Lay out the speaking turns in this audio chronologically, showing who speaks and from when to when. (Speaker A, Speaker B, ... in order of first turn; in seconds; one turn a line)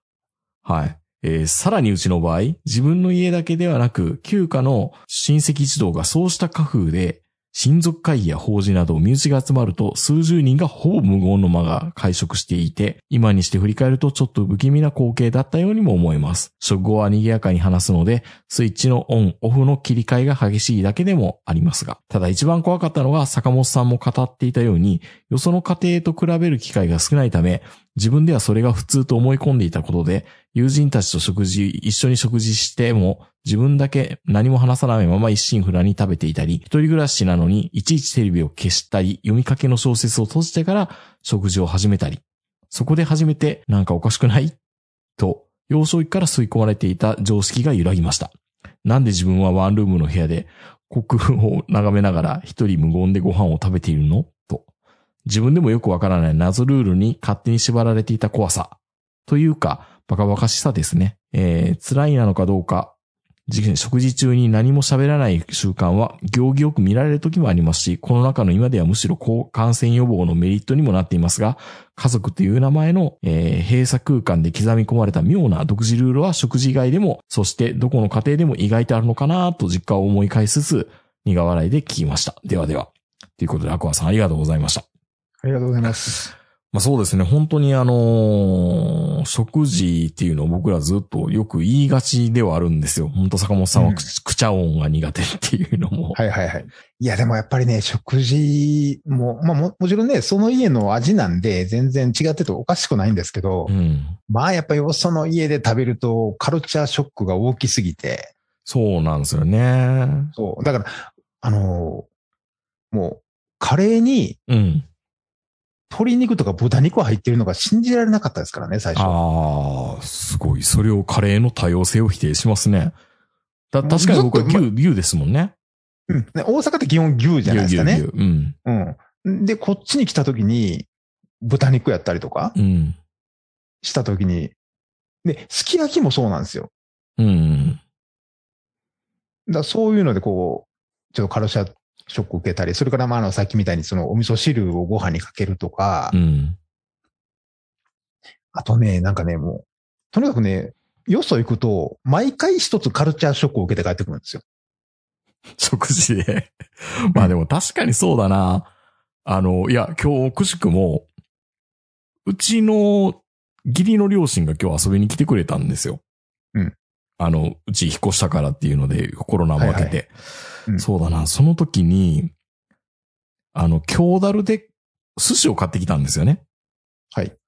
Speaker A: 0.6-44.6
Speaker A: 45.2-48.3
Speaker A: 48.8-54.6
Speaker A: 55.2-62.9
Speaker A: 63.5-84.8
Speaker B: 85.4-86.3
Speaker A: 86.7-96.2
Speaker B: 93.7-94.0
Speaker B: 96.1-103.7
Speaker A: 103.7-104.2
Speaker B: 104.3-108.3
Speaker A: 108.7-110.3
Speaker B: 110.3-112.1
Speaker B: 112.9-114.4
Speaker A: 114.5-114.9
Speaker B: 115.9-119.2
Speaker A: 118.9-123.0
Speaker A: 123.7-125.5
Speaker B: 123.8-124.7
Speaker B: 126.1-128.0
Speaker A: 127.4-128.6
Speaker B: 128.6-130.9
Speaker B: 131.4-132.5
Speaker A: 132.6-133.0
Speaker B: 133.8-134.5
Speaker B: 135.2-136.7
Speaker A: 137.2-137.8
Speaker B: 139.5-146.1
Speaker A: 146.1-146.6
Speaker B: 148.5-154.4
Speaker A: 155.6-158.7
Speaker A: 159.2-161.1
Speaker A: 162.3-166.0
Speaker A: 167.2-170.1
Speaker B: 169.6-170.0
Speaker A: 170.8-172.3
Speaker A: 173.5-176.4